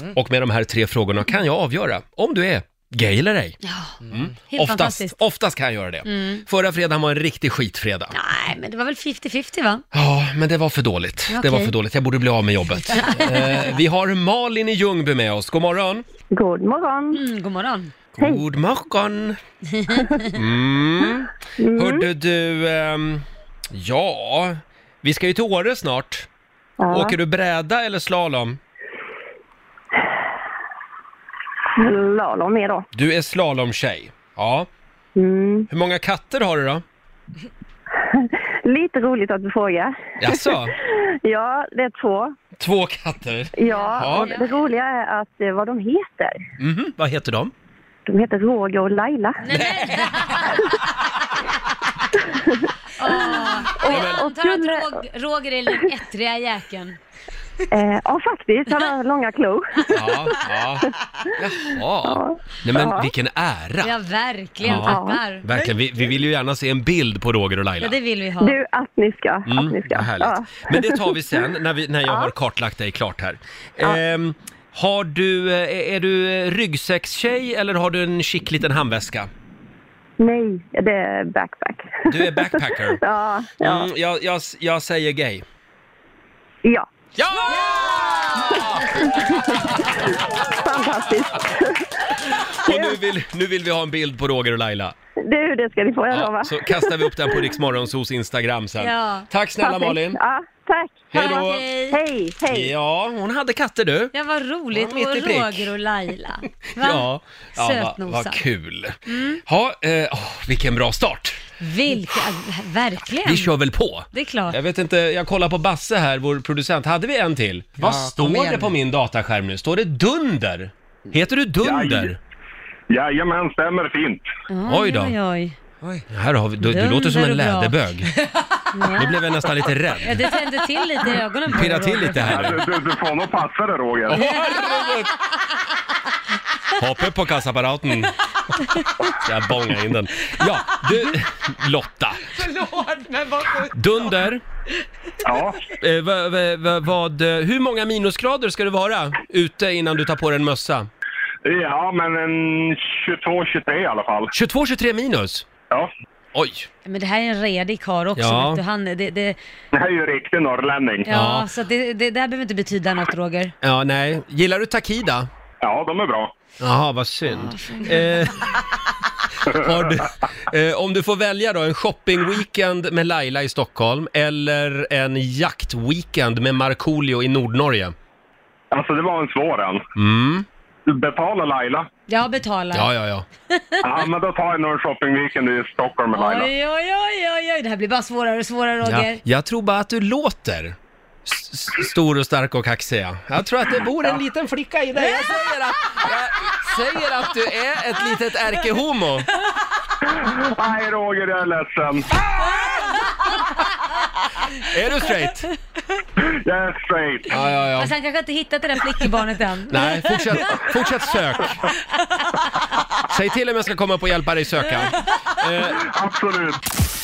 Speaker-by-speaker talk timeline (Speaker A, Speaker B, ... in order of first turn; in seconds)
Speaker A: 0.1-3.6, 4.1-8.2, 9.9-16.1, 18.1-19.4, 20.3-26.3, 26.9-28.6, 32.9-34.7, 35.7-36.8, 40.2-40.7, 42.6-44.4, 46.6-47.5, 53.9-54.2, 59.9-63.9, 64.6-68.0, 69.5-79.3, 82.1-83.0, 83.6-85.5, 87.2-90.1, 92.2-95.0, 96.1-100.2, 101.1-101.7, 102.5-104.1, 104.7-105.6, 106.8-111.4, 113.2-122.2, 124.7-125.2, 126.1-128.1, 129.0-130.2, 131.5-132.6, 134.1-135.1, 136.8-138.2, 139.1-142.3, 143.7-144.4, 145.7-150.9, 154.3-155.5, 156.3-156.7, 158.2-158.6, 161.1-161.5, 163.6-165.3, 166.6-168.4, 169.5-177.9, 180.0-180.5, 182.7-183.2, 188.9-199.3, 204.6-205.5, 207.3-207.9, 209.7-211.6, 213.1-215.8
Speaker B: 3.6-4.0, 4.5-5.2, 6.1-6.4, 8.1-9.8, 11.3-11.7, 12.9-13.6, 17.1-17.9, 19.8-20.1, 43.7-44.5, 49.4-50.6, 53.0-57.0, 63.8-65.5, 67.8-68.6, 98.8-99.3, 101.1-102.0, 104.1-107.1, 107.6-108.4, 109.1-109.4, 111.6-113.5, 114.1-114.6, 124.5-125.5, 126.7-127.8, 128.7-129.2, 130.0-132.5, 156.9-159.4, 161.1-163.5, 167.3-168.3, 182.1-182.9, 183.5-183.8, 186.1-189.2, 207.8-210.6
Speaker C: 16.3-17.2, 21.6-22.0, 26.8-27.2, 31.8-32.9, 35.2-35.7, 38.2-40.3, 41.2-42.3, 43.6-46.4, 48.1-49.4, 53.2-54.9, 57.7-60.4, 62.0-63.1, 64.7-65.2, 68.4-71.0, 80.2-83.9, 89.2-91.9, 92.7-93.0, 95.2-97.3, 99.6-101.0, 101.9-102.7
Speaker D: 117.8-118.8, 142.3-144.1
Speaker E: 121.6-122.1, 122.9-124.3, 132.3-134.3, 145.2-145.6, 151.4-154.3, 159.7-161.1, 165.6-166.3, 178.7-179.8, 180.9-181.9, 183.8-186.5, 200.1-202.2, 206.2-207.3, 215.8-216.6